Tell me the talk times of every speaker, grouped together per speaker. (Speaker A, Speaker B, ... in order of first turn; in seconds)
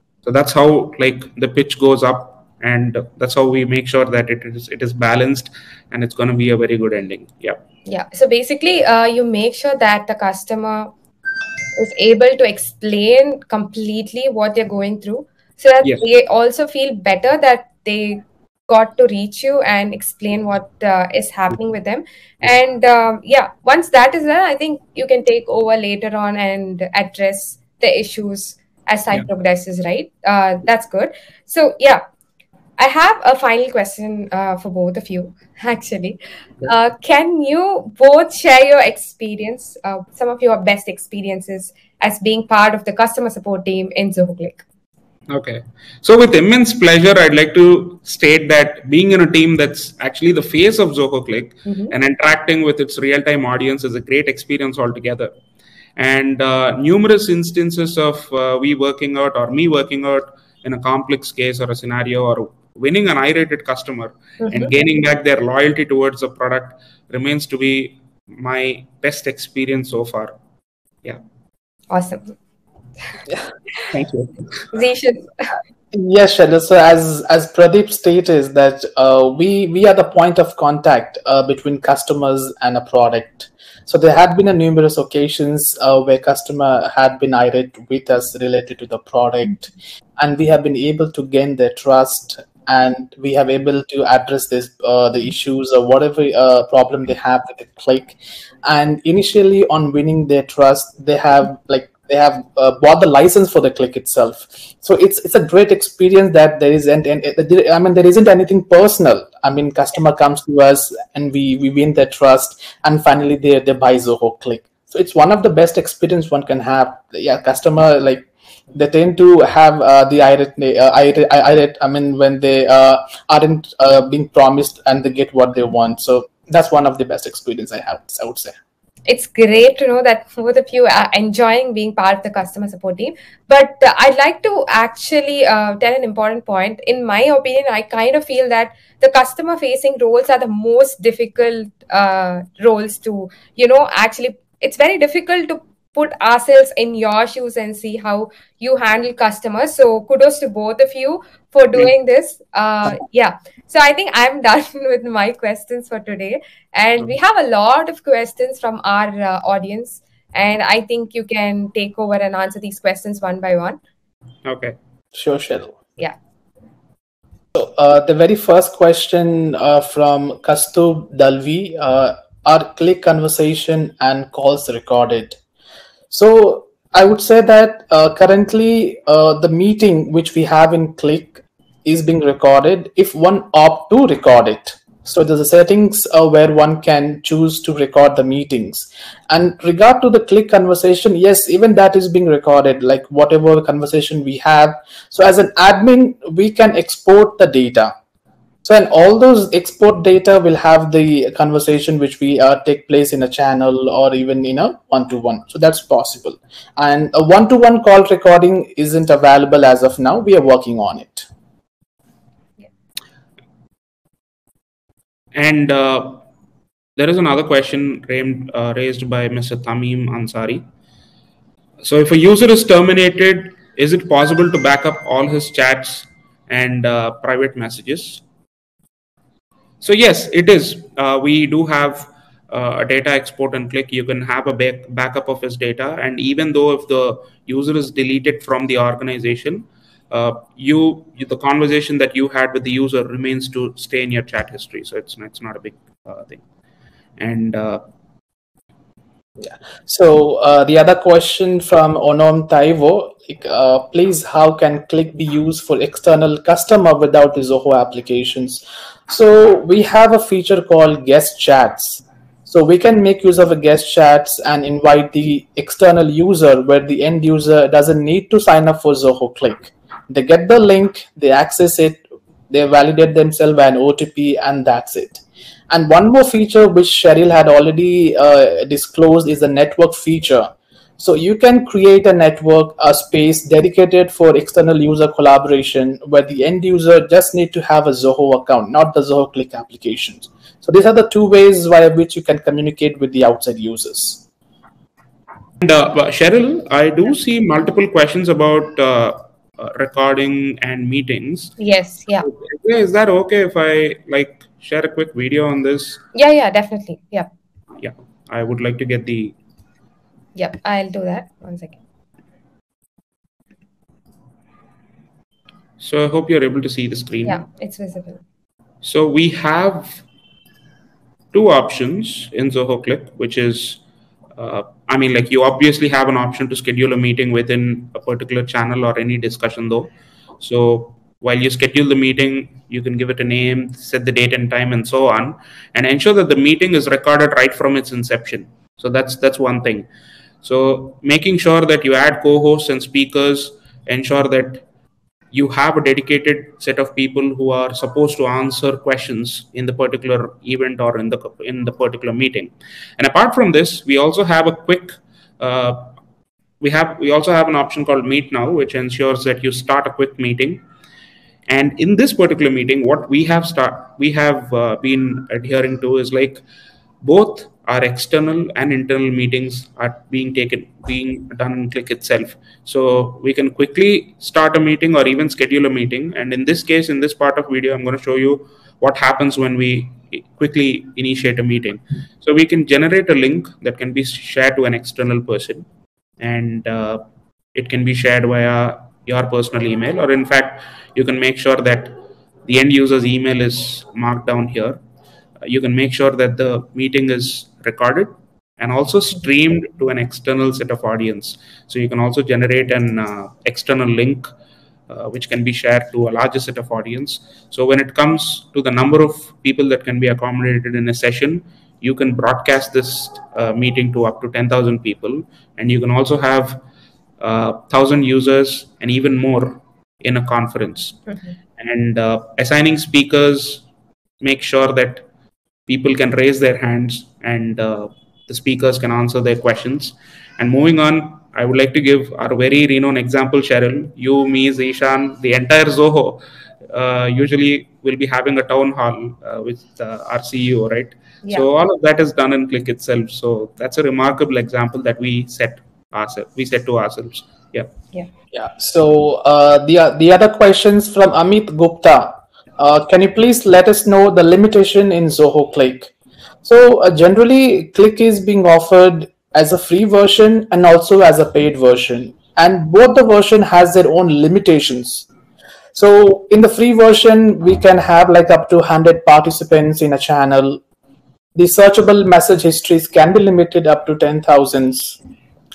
Speaker A: 0.2-7.6, 45.3-55.3, 56.0-70.3, 73.8-74.7, 164.4-164.8, 215.3-216.2, 216.9-220.6, 221.8-228.2, 229.8-246.4, 247.2-247.8, 295.6-301.6, 302.2-306.0, 307.8-309.3, 315.8-317.4, 318.8-320.0, 321.3-323.8, 324.4-339.9, 340.4-344.6, 345.3-355.9, 356.6-360.6, 361.5-366.4, 367.0-385.6, 386.2-387.0, 387.5-394.8, 395.4-404.3, 404.9-416.6, 417.2-421.0, 421.6-423.6, 424.2-425.0, 425.7-447.7
Speaker B: 7.9-10.9, 11.7-32.0, 32.8-44.6, 51.7-51.9, 64.4-64.7, 71.9-72.3, 74.7-75.5, 129.1-163.8, 301.6-302.3, 306.1-307.3, 310.4-311.8, 317.2-318.2
Speaker C: 75.9-128.5, 165.1-165.8, 167.5-175.4, 176.1-197.9, 198.6-211.3, 249.4-294.2, 448.3-455.9, 456.4-465.1, 465.7-470.6, 471.3-475.0